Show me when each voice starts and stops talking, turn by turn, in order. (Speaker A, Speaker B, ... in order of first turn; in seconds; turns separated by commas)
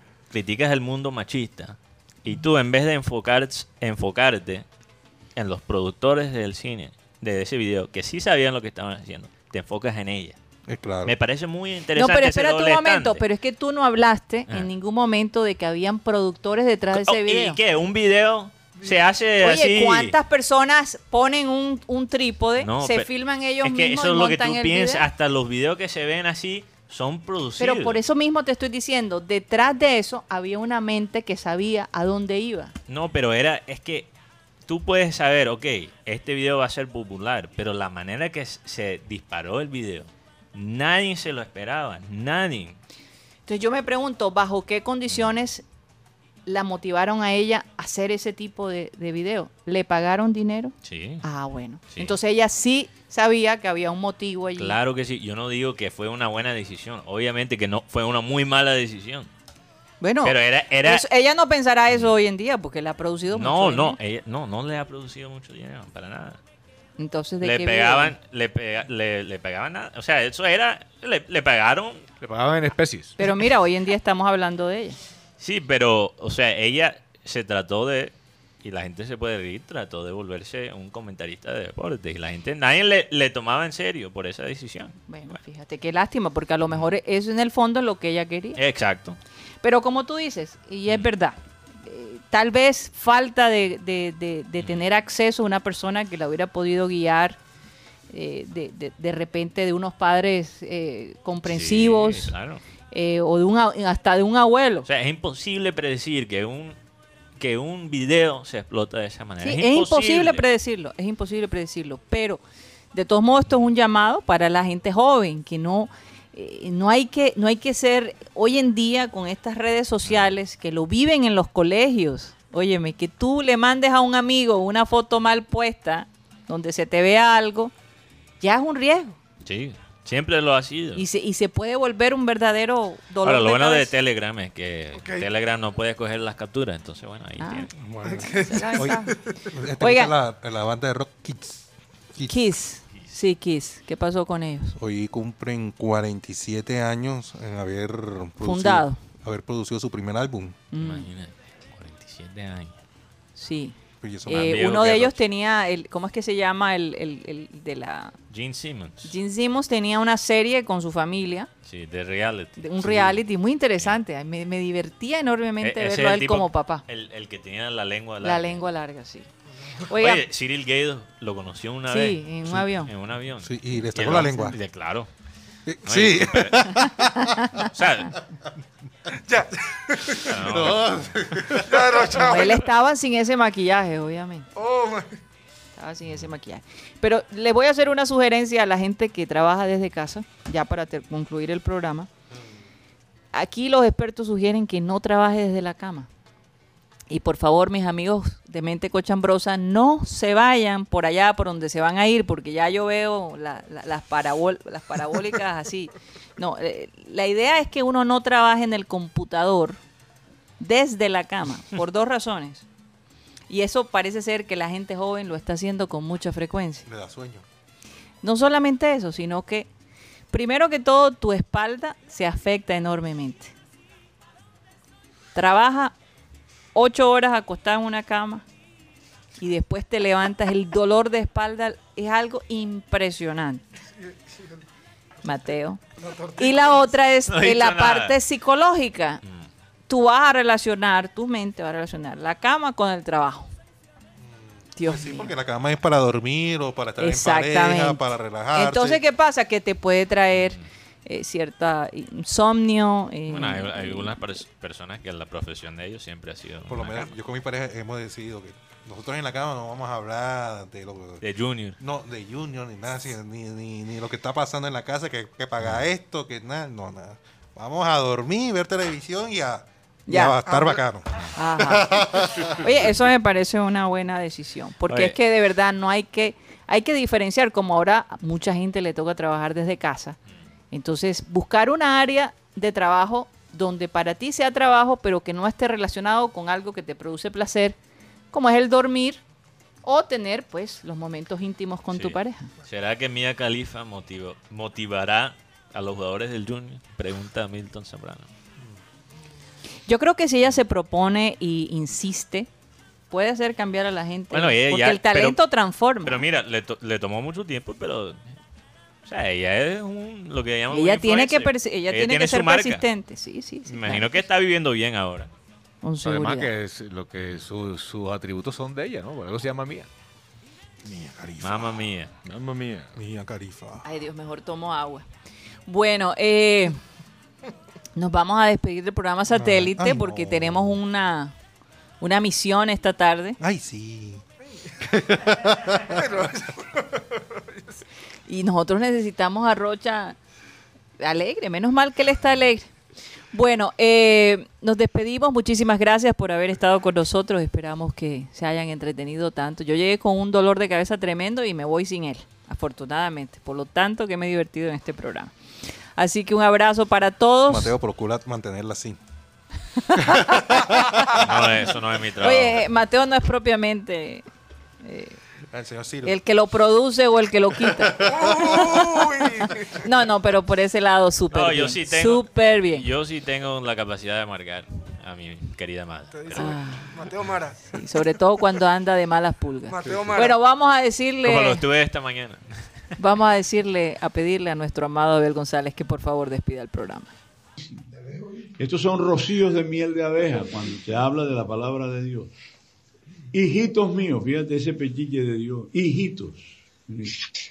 Speaker A: 0.3-4.6, Speaker A: 5.4-10.4, Speaker B: 10.7-11.1, Speaker A: 11.0-13.2, Speaker C: 11.9-17.6, Speaker A: 16.9-20.1, Speaker C: 19.4-25.1, Speaker A: 22.6-28.0, Speaker C: 27.6-32.7, Speaker A: 32.9-34.1, Speaker A: 34.6-42.8, Speaker C: 43.5-45.6, Speaker C: 46.5-54.8, Speaker A: 50.8-51.2, Speaker A: 51.9-52.2, Speaker A: 54.6-59.3, Speaker C: 60.0-64.0, Speaker A: 60.2-61.1, Speaker A: 61.9-62.1, Speaker A: 63.3-66.4, Speaker C: 67.0-68.1, Speaker A: 67.4-72.1, Speaker D: 72.2-73.1, Speaker C: 73.2-75.0, Speaker A: 75.4-85.4, Speaker C: 85.1-88.6, Speaker A: 88.5-89.2, Speaker C: 89.6-97.4, Speaker C: 98.1-102.3, Speaker A: 101.4-102.6, Speaker C: 102.9-104.9, Speaker A: 104.9-106.8, Speaker A: 107.4-110.4, Speaker C: 109.4-112.4, Speaker C: 112.9-127.7, Speaker A: 120.0-120.3, Speaker C: 128.4-129.2, Speaker A: 129.4-131.1, Speaker C: 130.9-133.9, Speaker A: 133.2-137.7, Speaker E: 134.9-135.3, Speaker C: 137.4-139.2, Speaker B: 137.8-142.5, Speaker E: 138.0-139.5, Speaker C: 139.8-140.1, Speaker C: 142.2-144.8, Speaker B: 144.8-150.6, Speaker C: 148.4-149.0, Speaker C: 150.7-151.1, Speaker A: 150.8-152.8, Speaker C: 153.4-158.1, Speaker B: 154.0-154.6, Speaker A: 154.3-155.2, Speaker A: 158.3-159.1, Speaker C: 159.0-161.5, Speaker A: 161.6-163.2, Speaker C: 162.6-166.8, Speaker A: 165.6-168.6, Speaker C: 168.2-169.3, Speaker C: 169.8-170.2, Speaker A: 169.9-175.1, Speaker C: 171.9-172.9, Speaker B: 173.4-174.6, Speaker B: 175.7-177.7, Speaker A: 175.8-176.9, Speaker C: 176.8-177.5, Speaker A: 177.6-178.2, Speaker E: 179.2-180.4, Speaker A: 180.2-181.1, Speaker B: 180.3-182.1, Speaker E: 181.5-182.7, Speaker C: 182.1-184.5, Speaker E: 184.5-185.2, Speaker C: 185.8-192.1, Speaker C: 193.3-196.1, Speaker C: 197.1-209.8, Speaker C: 210.6-212.7, Speaker C: 213.5-216.9, Speaker B: 216.9-217.4, Speaker C: 218.2-219.7, Speaker C: 220.3-223.5, Speaker C: 225.3-225.9, Speaker C: 226.7-228.4, Speaker C: 229.4-233.6, Speaker E: 234.0-234.6, Speaker C: 235.2-235.8, Speaker E: 235.2-236.9, Speaker C: 236.4-239.2, Speaker A: 237.3-238.2, Speaker C: 239.9-243.5, Speaker B: 244.2-249.0, Speaker C: 244.8-245.3, Speaker C: 247.0-254.1, Speaker A: 250.3-250.7, Speaker A: 253.3-257.1, Speaker B: 256.6-261.2, Speaker A: 261.2-261.8, Speaker B: 261.8-272.7, Speaker C: 270.1-270.4, Speaker E: 270.5-270.8, Speaker C: 271.4-280.2, Speaker A: 274.9-275.1, Speaker C: 280.7-287.8, Speaker C: 288.3-289.2, Speaker C: 289.8-292.5, Speaker A: 291.9-298.3, Speaker C: 299.9-302.5, Speaker C: 303.1-306.2, Speaker A: 304.3-305.4, Speaker A: 306.0-308.3, Speaker A: 309.1-312.9, Speaker C: 310.7-314.2, Speaker A: 313.6-315.3, Speaker C: 315.8-316.5, Speaker D: 316.0-319.9, Speaker B: 320.8-321.9, Speaker A: 321.4-322.1, Speaker D: 322.2-323.0, Speaker B: 322.9-323.9, Speaker C: 323.8-325.1, Speaker C: 325.7-326.8, Speaker C: 327.9-331.3, Speaker B: 329.3-330.8, Speaker C: 332.0-333.4, Speaker B: 333.4-334.2, Speaker E: 334.5-337.8, Speaker B: 334.8-336.3, Speaker C: 338.3-340.2, Speaker C: 341.0-342.7, Speaker C: 343.3-355.3, Speaker C: 355.9-357.7, Speaker B: 357.5-359.0, Speaker C: 359.8-361.2, Speaker B: 359.9-360.9, Speaker A: 361.1-362.7, Speaker C: 362.2-364.2, Speaker C: 364.8-365.2, Speaker B: 365.5-366.2, Speaker C: 366.0-372.9, Speaker B: 367.6-368.6, Speaker E: 368.0-369.8, Speaker A: 371.3-376.6, Speaker E: 376.1-377.8, Speaker C: 376.4-376.9, Speaker C: 377.7-381.6, Speaker E: 379.7-380.4, Speaker D: 379.9-380.1, Speaker A: 381.2-382.7, Speaker C: 383.0-387.1, Speaker F: 388.6-392.3, Speaker F: 393.3-397.2